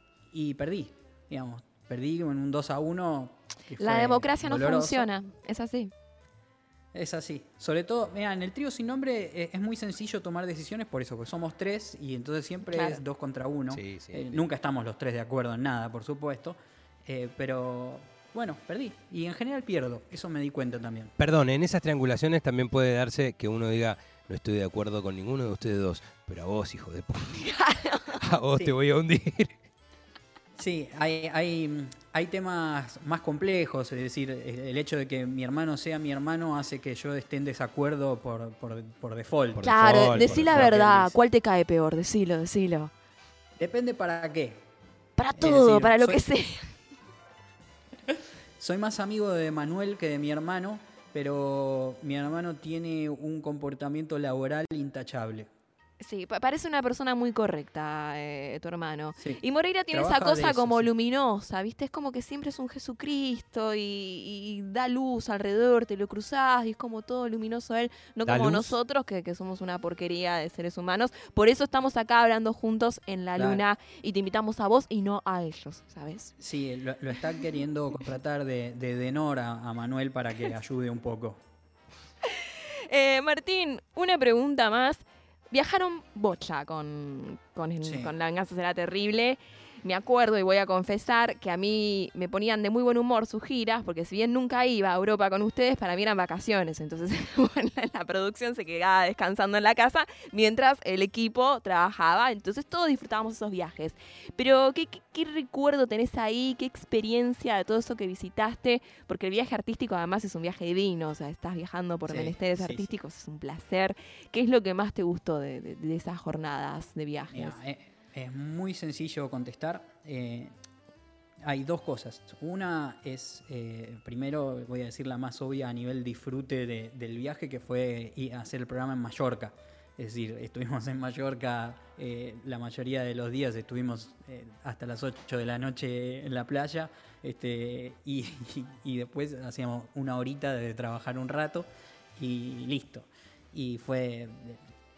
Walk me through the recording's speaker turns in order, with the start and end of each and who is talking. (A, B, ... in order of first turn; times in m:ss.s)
0:00.3-0:05.1 A
0:03.8-0:05.9 B
0:06.9-0:21.1 A
0:12.7-0:13.0 B
0:13.7-0:14.4 C
0:21.2-0:27.6 C
0:27.4-0:28.2 B
0:28.2-0:29.5 C
0:30.6-0:41.2 A
0:39.6-0:40.7 C
0:39.6-0:42.9 B
0:43.6-0:44.6 A
0:45.2-0:46.7 B
0:45.3-0:46.2 A
0:48.1-0:55.5 A
0:56.0-1:16.3 B
0:59.2-1:00.9 A
1:08.2-1:08.7 C
1:13.4-1:13.6 A
1:16.4-1:21.4 A
1:22.3-1:57.6 B
1:27.8-1:28.1 A
1:52.1-1:52.9 A
1:57.3-2:00.5 A
2:01.4-2:24.6 A